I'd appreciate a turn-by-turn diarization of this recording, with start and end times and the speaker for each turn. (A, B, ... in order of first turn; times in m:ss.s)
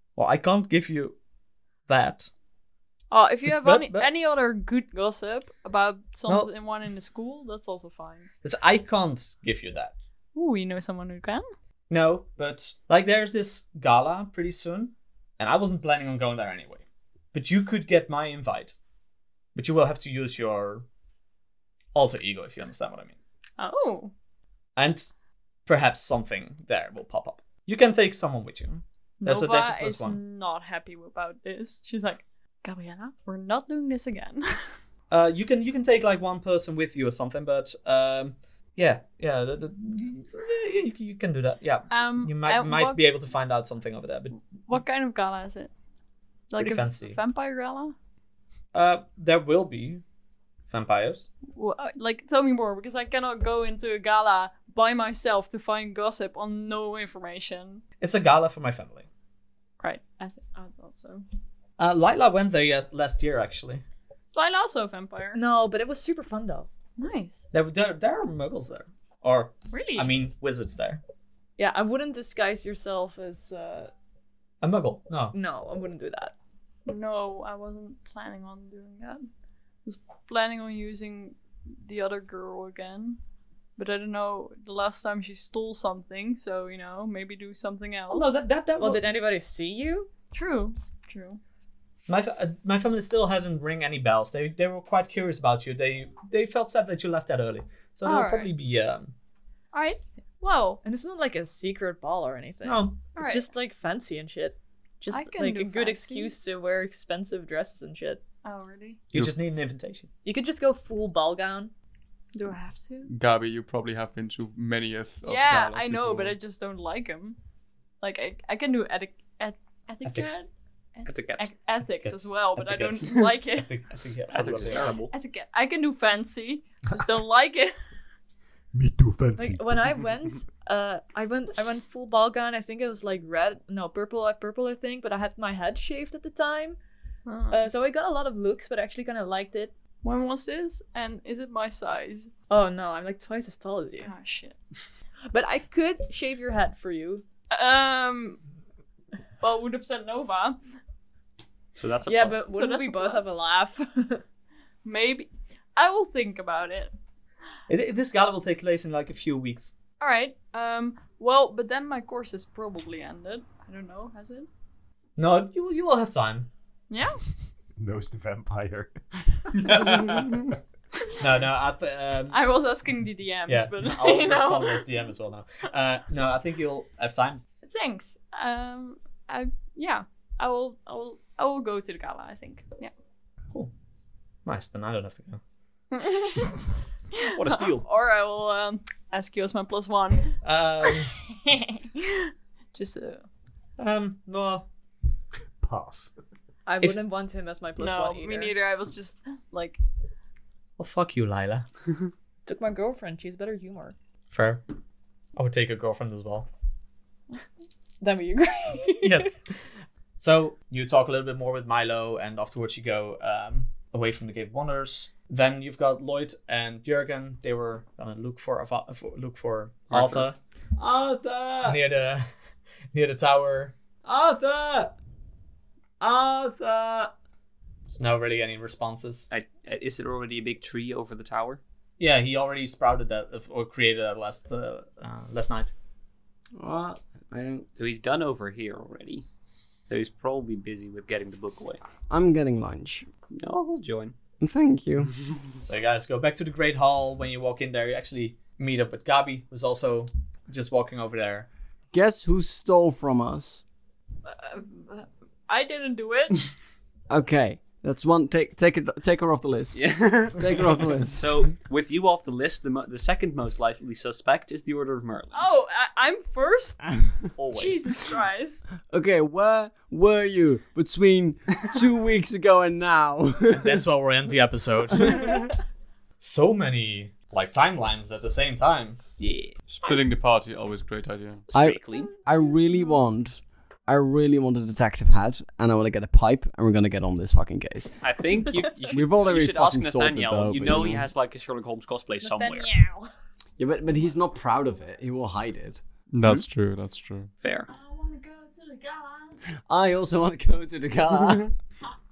0:00.2-0:01.2 A
0:01.9-0:02.3 A
0:03.1-0:08.3 B
0:03.5-0:04.1 A
0:08.4-0:10.0 A
0:10.3-0:11.4 B
0:11.9-0:18.8 A
0:19.6-0:20.8 A
0:21.9-0:23.2 A
0:23.6-0:24.1 B
0:24.8-0:25.1 A
0:25.7-0:30.2 A
0:29.2-0:34.5 B
0:35.1-0:44.4 A
0:41.9-0:43.1 B
0:44.6-0:45.7 B
0:46.5-0:48.0 B
0:46.5-0:47.2 A
0:48.7-0:50.0 A
0:50.7-0:51.3 A
0:51.5-0:57.8 B
0:58.0-0:59.1 A
0:59.8-1:01.2 B
1:01.8-1:03.8 A
1:04.3-1:05.4 B
1:05.3-1:06.7 C
1:07.0-1:07.5 B
1:07.5-1:11.0 A
1:09.7-1:10.2 B
1:11.6-1:13.9 C
1:14.6-1:15.4 A
1:15.3-1:16.3 C
1:16.9-1:19.3 B
1:19.8-1:23.2 B
1:23.8-1:28.4 B
1:28.1-1:29.0 A
1:28.8-1:30.1 C
1:30.3-1:31.4 B
1:32.1-1:39.1 A
1:38.0-1:38.5 B
1:39.7-1:40.8 B
1:40.8-1:48.2 C
1:42.6-1:43.0 A
1:43.1-1:43.5 B
1:45.1-1:46.3 B
1:48.4-1:49.0 B
1:49.1-1:50.1 A
1:50.2-1:51.7 C
1:52.3-1:53.1 B
1:53.1-1:56.4 D
1:55.2-1:57.4 B
1:58.0-2:03.7 B
2:00.0-2:00.4 A
2:01.0-2:01.5 E
2:02.0-2:05.0 A
2:04.3-2:05.1 E
2:05.1-2:07.7 B
2:08.7-2:09.9 F
2:09.4-2:16.8 C
2:17.3-2:17.6 B
2:17.5-2:19.7 C
2:20.0-2:22.3 B
2:22.5-2:24.1 C
2:24.0-2:24.6 B
2:25.3-2:27.2 C
2:27.5-2:28.4 B
2:29.4-2:30.6 B
2:31.8-2:32.5 E
2:32.1-2:34.2 C
2:32.5-2:33.3 B
2:34.8-2:36.9 B
2:37.7-2:39.8 A
2:40.0-2:44.5 B
2:45.2-2:46.5 A
2:46.9-2:47.2 B
2:47.8-2:50.2 F
2:49.6-2:50.4 A
2:51.2-2:52.4 A
2:52.3-2:55.1 B
2:53.5-2:57.4 A
2:57.6-3:02.9 B
3:04.4-3:05.4 A
3:05.9-3:06.6 B
3:07.1-3:13.3 B
3:07.3-3:07.9 E
3:10.4-3:11.1 A
3:13.8-3:14.7 A
3:15.6-3:16.1 F
3:16.7-3:18.6 C
3:17.8-3:19.8 B
3:20.8-3:21.7 A
3:22.5-3:24.0 C
3:24.3-3:24.6 A
3:25.4-3:26.5 A
3:28.0-3:29.3 C
3:29.0-3:29.7 A
3:30.2-3:40.4 A
3:39.9-3:40.2 E
3:40.8-3:41.8 G
3:41.6-3:42.3 A
3:42.9-3:43.9 A
3:44.0-3:44.8 G
3:46.0-3:47.1 G
3:47.9-3:49.3 A
3:49.3-3:51.6 E
3:52.0-3:55.7 A
3:56.6-3:57.7 G
3:57.8-3:59.3 E
3:59.9-4:01.8 E
4:02.1-4:03.1 G
4:03.4-4:04.2 E
4:04.4-4:05.1 G
4:05.6-4:11.5 A
4:11.9-4:13.6 G
4:14.2-4:16.5 B
4:17.1-4:21.4 G
4:19.7-4:25.4 E
4:25.3-4:26.9 B
4:27.4-4:28.2 E
4:27.5-4:28.6 B
4:28.9-4:33.8 G
4:33.5-4:35.5 A
4:36.2-4:39.2 A
4:39.2-4:39.6 E
4:39.7-4:41.4 D
4:39.9-4:40.1 B
4:41.5-4:42.1 E
4:41.5-4:48.0 G
4:48.0-4:52.7 E
4:48.9-4:51.1 G
4:52.2-4:53.1 C
4:53.6-4:55.8 G
4:56.1-4:57.3 D
4:57.4-4:57.7 E
4:57.7-4:59.4 B
4:59.7-5:01.5 G